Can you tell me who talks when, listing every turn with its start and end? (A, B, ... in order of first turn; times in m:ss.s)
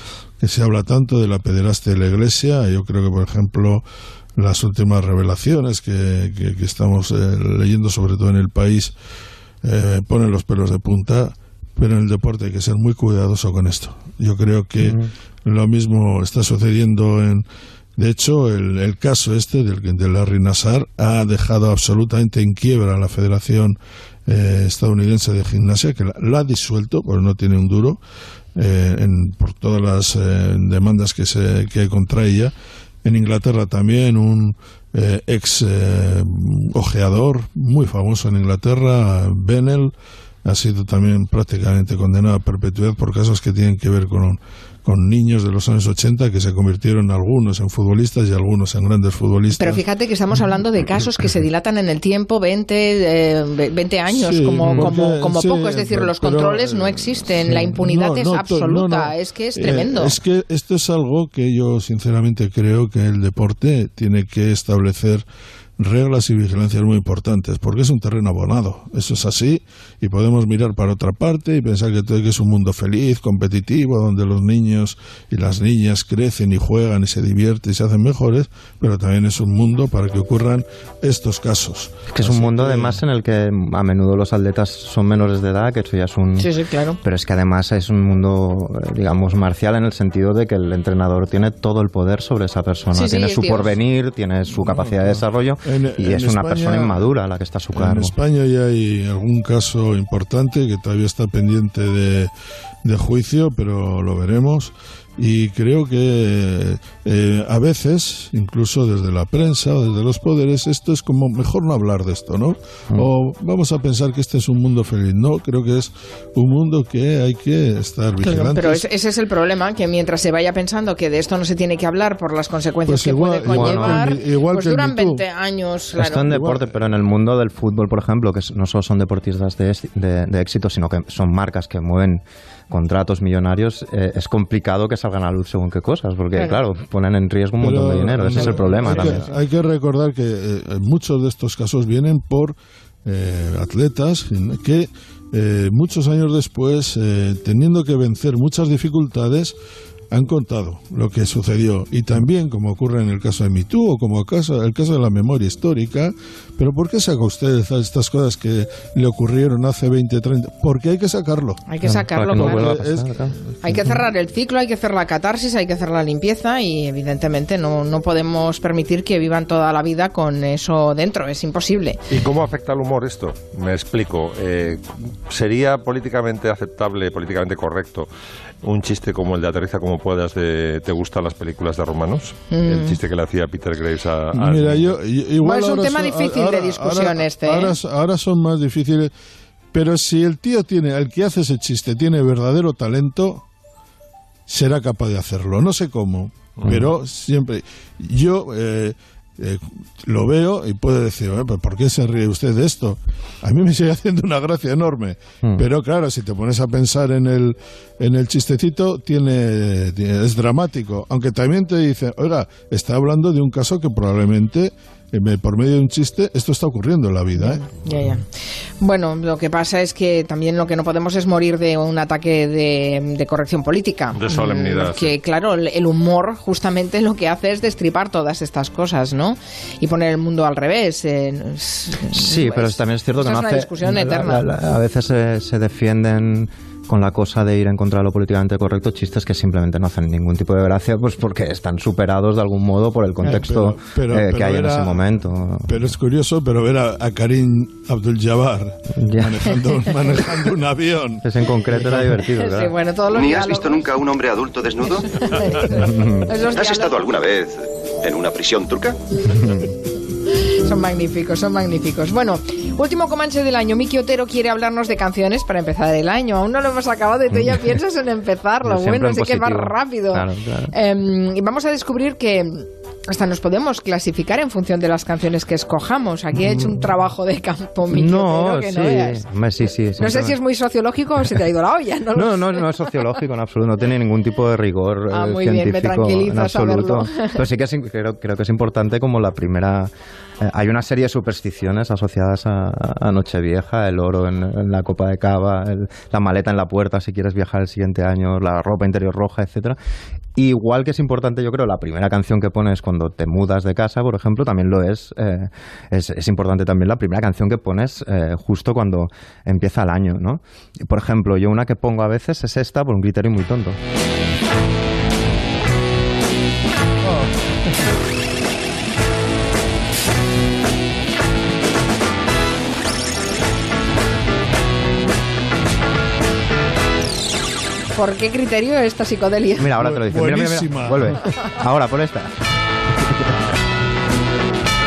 0:00.4-0:03.8 A
0:04.4-0:08.9 A
0:09.6-0:17.4 A
0:14.8-0:15.1 B
0:18.0-0:28.0 A
0:28.6-0:32.5 A
0:33.0-0:39.9 A
0:40.4-0:49.8 A
0:49.6-1:00.2 C
0:54.1-1:05.2 A
0:54.6-0:55.0 B
1:05.8-1:23.0 A
1:22.1-1:26.5 B
1:26.4-1:27.0 C
1:27.0-1:38.1 B
1:32.9-1:33.7 C
1:34.5-1:37.1 A
1:37.7-1:42.3 A
1:42.8-1:58.8 A
1:58.2-2:06.3 C
2:02.9-2:05.2 A
2:03.5-2:04.0 B
2:06.0-2:19.3 B
2:06.2-2:06.7 A
2:16.3-2:16.6 C
2:17.6-2:29.6 A
2:18.4-2:18.7 C
2:30.1-2:41.6 A
2:41.7-2:42.7 C
2:41.8-2:43.9 B
2:42.3-2:43.2 A
2:43.6-2:52.0 C
2:52.1-2:58.1 D
2:58.6-3:05.0 D
3:02.5-3:03.0 C
3:04.3-3:09.1 A
3:05.4-3:07.8 C
3:09.7-3:13.4 A
3:14.5-3:38.2 A
3:16.6-3:16.9 B
3:37.4-3:54.4 C
3:44.1-3:45.1 D
3:52.1-4:05.8 B
4:03.2-4:05.0 A
4:05.7-4:12.1 A
4:08.9-4:09.6 B
4:11.2-4:12.7 B
4:12.3-4:13.9 C
4:13.1-4:15.2 E
4:15.0-4:17.0 C
4:15.7-4:16.3 B
4:16.5-4:19.0 E
4:19.4-4:19.6 B
4:20.6-4:39.2 C
4:27.3-4:27.8 B
4:28.6-4:30.7 B
4:36.4-4:36.7 B
4:37.9-4:40.4 B
4:40.0-4:43.0 C
4:42.1-4:59.8 B
4:45.1-4:47.4 C
5:00.4-5:13.8 B
5:27.9-5:29.7 C
5:29.6-5:32.3 B
5:29.8-5:31.3 A